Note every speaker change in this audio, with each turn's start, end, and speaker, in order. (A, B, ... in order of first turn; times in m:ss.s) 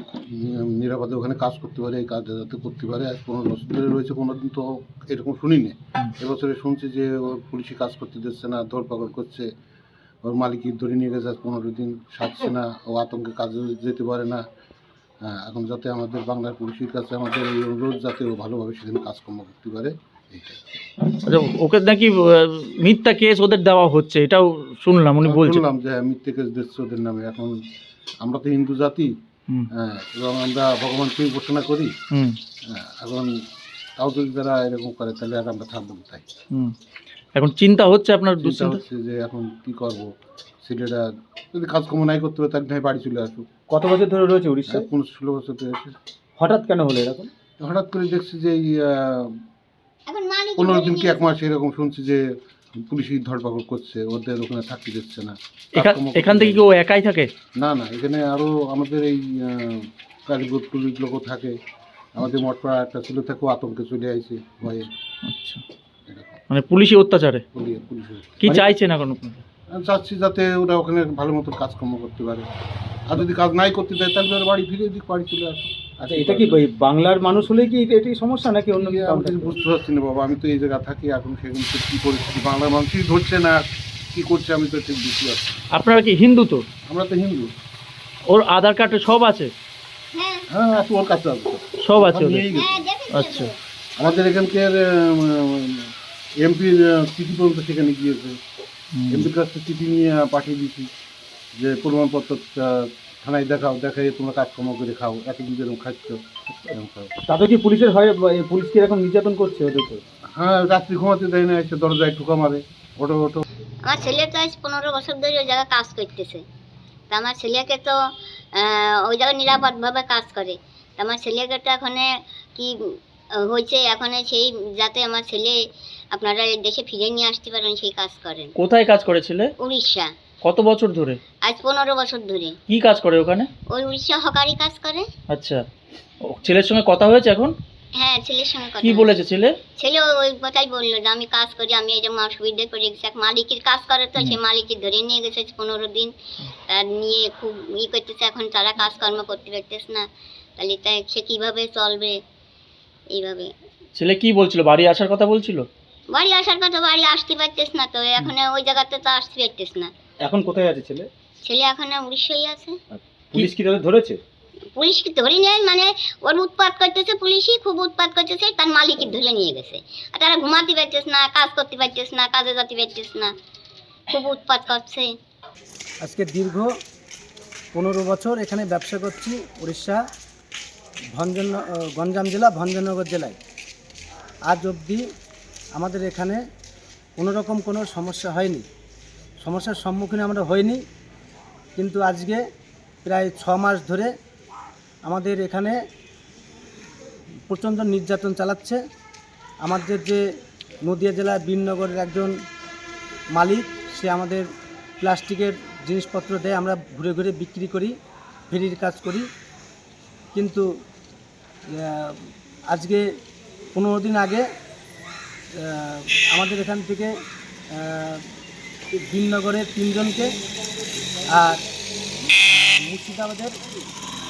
0:00.3-0:09.5 A
0:10.2-0:14.4 A
0:15.2-0:20.6 A
0:21.2-0:25.6 B
0:25.2-0:27.6 A
0:28.2-0:29.1 A
0:29.8-0:31.9 A
0:32.7-0:33.3 A
0:34.0-0:36.2 A
0:37.3-0:38.8 B
0:38.4-0:40.1 A
0:40.6-0:43.4 A
0:43.7-0:44.8 C
0:44.7-0:46.0 A
0:46.4-0:47.3 C
0:47.6-0:49.3 A
0:50.1-0:51.2 D
0:50.6-0:56.7 A
0:55.8-0:57.3 B
0:57.6-1:01.6 A
1:02.2-1:04.9 A
1:05.3-1:05.6 B
1:06.1-1:06.4 A
1:06.5-1:07.4 B
1:07.5-1:08.5 A
1:08.4-1:09.4 B
1:09.7-1:12.5 A
1:13.1-1:16.6 A
1:16.1-1:19.5 C
1:18.7-1:25.6 A
1:25.8-1:26.6 B
1:26.9-1:27.5 A
1:28.3-1:29.5 B
1:30.1-1:30.5 D
1:30.5-1:32.9 A
1:31.8-1:32.4 B
1:32.5-1:33.5 D
1:33.1-1:33.5 B
1:34.0-1:38.4 A
1:38.9-1:39.3 B
1:39.1-1:40.9 A
1:41.6-1:47.1 A
1:47.3-1:50.0 C
1:50.4-1:53.4 A
1:53.8-1:56.4 D
1:57.1-1:58.0 D
1:58.5-2:05.6 D
2:06.1-2:08.5 D
2:08.6-2:09.5 B
2:09.6-2:10.1 D
2:10.4-2:11.2 B
2:11.4-2:12.6 D
2:12.7-2:13.5 B
2:13.7-2:15.1 D
2:15.3-2:15.6 B
2:16.2-2:17.6 B
2:17.9-2:19.2 D
2:18.8-2:19.6 B
2:19.8-2:26.1 D
2:26.7-2:30.1 D
2:30.6-2:32.2 D
2:33.1-2:33.5 D
2:34.0-2:35.7 B
2:36.1-2:39.9 D
2:40.3-2:41.1 C
2:41.4-2:42.8 D
2:43.4-2:44.2 C
2:44.8-2:53.3 D
2:54.1-2:55.1 D
2:56.0-2:56.7 E
2:57.7-3:00.0 E
3:01.2-3:03.4 E
3:04.5-3:05.0 E
3:05.8-3:06.4 E
3:07.2-3:08.6 E
3:09.4-3:10.8 E
3:11.8-3:12.4 E
3:13.0-3:14.1 E
3:15.0-3:15.8 E
3:17.5-3:18.8 E
3:19.6-3:20.2 E
3:20.8-3:22.3 E
3:23.4-3:24.4 E
3:25.0-3:27.9 E
3:28.5-3:29.2 E
3:30.4-3:30.7 E
3:31.7-3:32.2 E
3:32.7-3:33.0 E
3:33.8-3:34.4 E
3:35.6-3:37.1 E
3:37.8-3:38.2 E
3:38.9-3:40.3 E
3:41.4-3:41.6 E
3:42.4-3:43.6 E